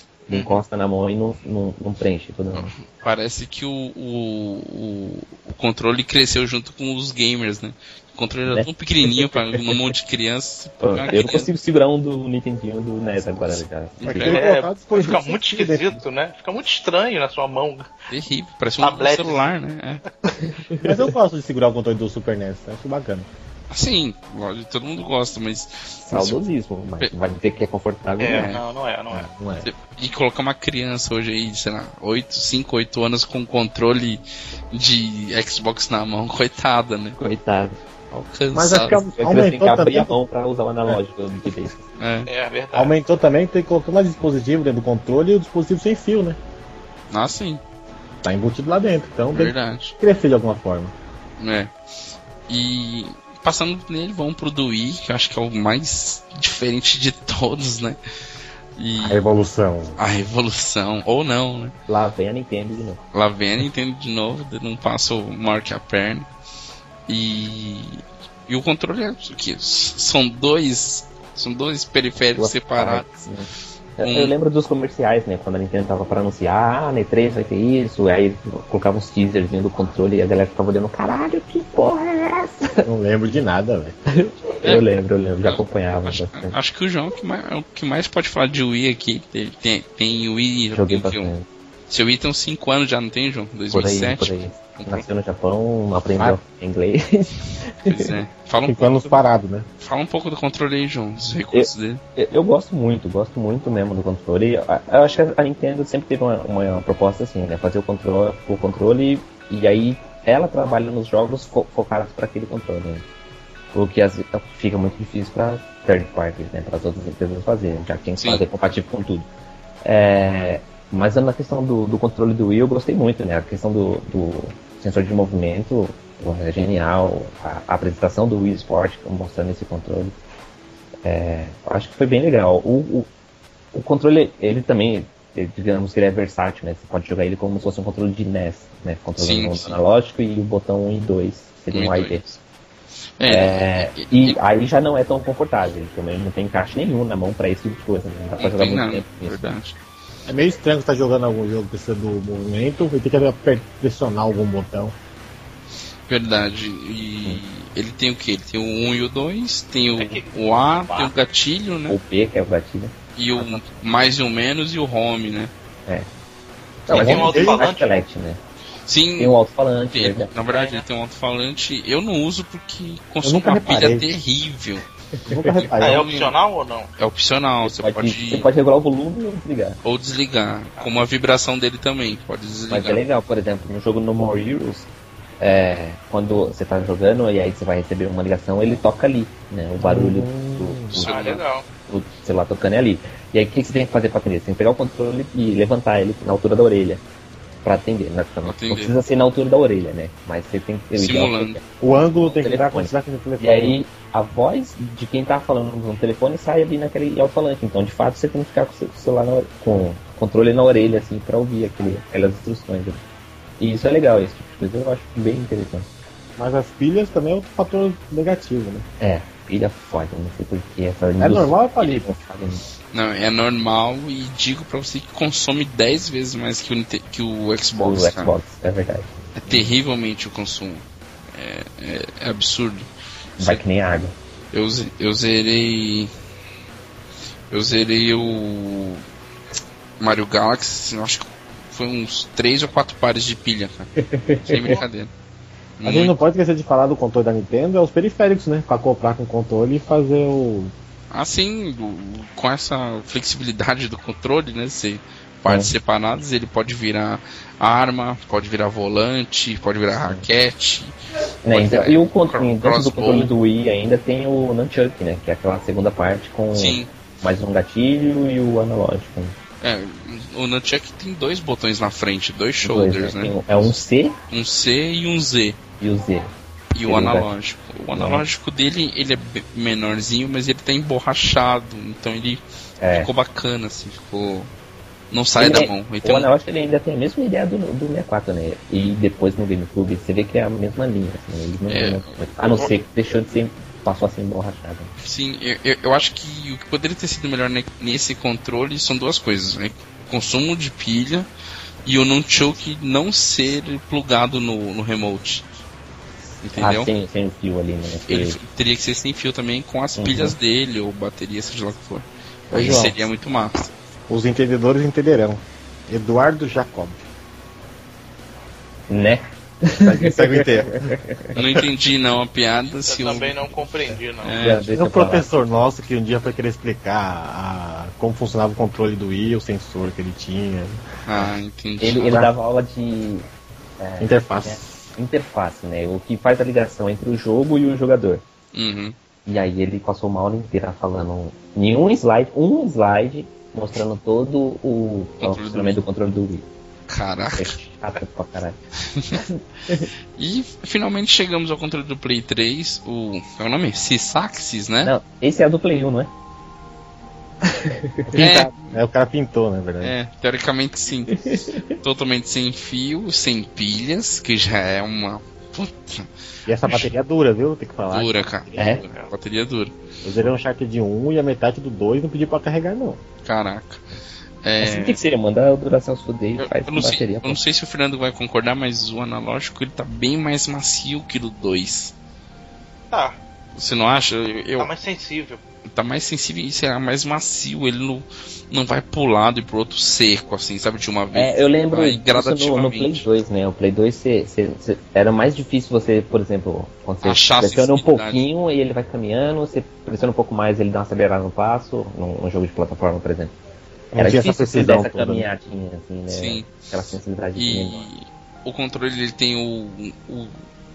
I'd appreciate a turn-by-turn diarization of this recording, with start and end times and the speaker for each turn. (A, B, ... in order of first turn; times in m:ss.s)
0:00.3-0:02.7 A
0:02.5-0:11.5 B
0:08.5-0:09.9 A
0:10.8-0:14.3 A
0:14.0-0:14.4 B
0:14.0-0:16.0 C
0:14.2-0:17.9 D
0:18.1-0:20.0 B
0:18.8-0:19.5 D
0:20.4-0:21.1 A
0:20.8-0:23.3 C
0:23.7-0:26.4 B
0:26.0-0:28.6 A
0:28.2-0:29.3 D
0:28.3-0:28.6 B
0:29.1-0:29.7 C
0:29.6-0:37.2 B
0:37.2-0:37.8 A
0:38.1-0:39.0 B
0:38.5-0:40.2 C
0:38.9-0:41.8 A
0:42.0-0:42.3 B
0:42.2-0:43.0 D
0:42.7-0:46.4 C
0:47.1-0:47.6 B
0:48.2-0:50.9 C
0:49.3-0:50.0 B
0:51.4-0:51.7 B
0:52.5-0:58.0 B
0:58.8-0:59.2 B
0:59.0-1:00.0 C
1:00.0-1:01.7 B
1:01.9-1:03.0 A
1:03.1-1:06.3 B
1:07.1-1:13.1 B
1:12.4-1:22.9 A
1:14.0-1:14.3 B
1:22.8-1:24.0 C
1:24.2-1:26.6 A
1:25.4-1:31.3 B
1:30.7-1:31.5 A
1:31.9-1:35.0 B
1:33.7-1:38.1 A
1:37.8-1:39.2 B
1:38.6-1:39.7 C
1:39.8-1:42.0 B
1:41.5-1:53.0 A
1:53.7-1:59.3 A
1:58.2-1:58.4 B
1:59.8-2:10.2 A
2:11.0-2:13.1 A
2:13.7-2:22.2 A
2:19.2-2:19.8 B
2:21.7-2:22.4 B
2:23.2-2:24.4 B
2:23.3-2:29.4 A
2:28.4-2:29.8 B
2:30.2-2:34.9 C
2:36.1-2:42.0 B
2:40.0-2:40.7 D
2:41.9-2:43.7 A
2:43.2-2:45.5 B
2:46.9-2:48.4 A
2:46.9-2:47.7 C
2:46.9-2:48.0 D
2:48.8-2:49.4 B
2:49.2-2:50.3 A
2:49.9-2:54.8 B
2:50.5-2:50.8 D
2:53.2-2:54.0 C
2:55.2-2:55.6 A
2:55.2-2:56.1 C
2:55.5-2:56.3 B
2:55.8-2:56.9 D
2:57.0-2:58.5 B
2:57.6-2:59.8 A
2:59.8-3:03.0 B
3:00.8-3:01.0 D
3:02.7-3:04.9 A
3:05.4-3:11.3 A
3:09.8-3:10.9 C
3:10.9-3:11.4 B
3:11.0-3:11.6 D
3:11.9-3:17.0 A
3:17.6-3:33.0 A
3:18.4-3:19.0 B
3:20.9-3:21.6 B
3:21.8-3:23.8 C
3:33.6-3:35.9 A
3:36.4-3:38.8 C
3:39.0-3:42.6 A
3:41.2-3:42.1 C
3:42.9-3:48.3 B
3:47.8-3:49.7 A
3:49.4-3:53.6 B
3:53.4-3:54.1 A
3:54.5-3:56.1 B
3:57.5-3:59.0 B
4:00.0-4:05.1 B
4:04.0-4:04.8 A
4:05.8-4:06.2 B
4:05.8-4:10.7 C
4:11.1-4:20.9 B
4:15.4-4:15.7 A
4:20.0-4:20.2 A
4:21.4-4:29.4 A
4:21.5-4:23.3 B
4:26.5-4:26.9 B
4:29.6-4:33.4 B
4:32.6-4:34.2 A
4:34.3-4:35.6 B
4:35.8-4:36.3 A
4:36.7-4:44.5 B
4:36.8-4:37.3 A
4:37.9-4:38.2 A
4:42.8-4:43.1 A
4:45.1-4:46.3 B
4:45.4-4:54.9 A
4:51.7-4:52.7 B
4:55.0-5:01.3 B
5:01.8-5:05.5 B
5:06.4-5:06.9 B
5:06.6-5:08.4 A
5:08.1-5:13.7 B
5:10.0-5:10.4 A
5:12.5-5:13.0 A
5:12.5-5:12.9 C
5:14.1-5:17.0 C
5:18.9-5:21.4 A
5:19.8-5:20.9 C
5:21.3-5:23.6 B
5:22.8-5:24.4 D
5:24.2-5:24.7 B
5:24.3-5:25.6 A
5:24.7-5:30.8 C
5:31.0-5:32.3 B
5:31.8-5:33.2 A
5:33.8-5:38.2 A
5:34.0-5:34.7 C
5:38.5-5:39.0 B
5:39.2-5:46.5 A
5:45.2-5:45.8 B
5:46.9-5:47.6 B
5:47.4-5:48.6 A
5:48.8-5:49.2 B
5:49.1-5:49.9 A
5:50.2-5:54.9 B
5:54.8-5:56.1 A
5:57.4-5:58.2 A
5:58.1-5:59.9 C
5:58.1-5:58.8 B
5:59.8-6:06.1 B
6:01.1-6:01.7 A
6:06.4-6:08.7 C
6:07.9-6:09.7 B
6:08.6-6:08.8 A
6:10.0-6:13.0 C
6:13.2-6:13.8 B
6:14.4-6:15.0 B
6:14.6-6:17.4 A
6:16.4-6:21.9 B
6:22.9-6:23.2 D
6:23.5-6:24.7 B
6:24.6-6:25.4 D
6:25.7-6:33.1 B
6:31.1-6:43.3 A
6:37.0-6:38.2 B
6:43.9-6:45.3 C
6:44.0-6:47.9 A
6:46.1-6:46.5 B
6:47.4-6:50.4 B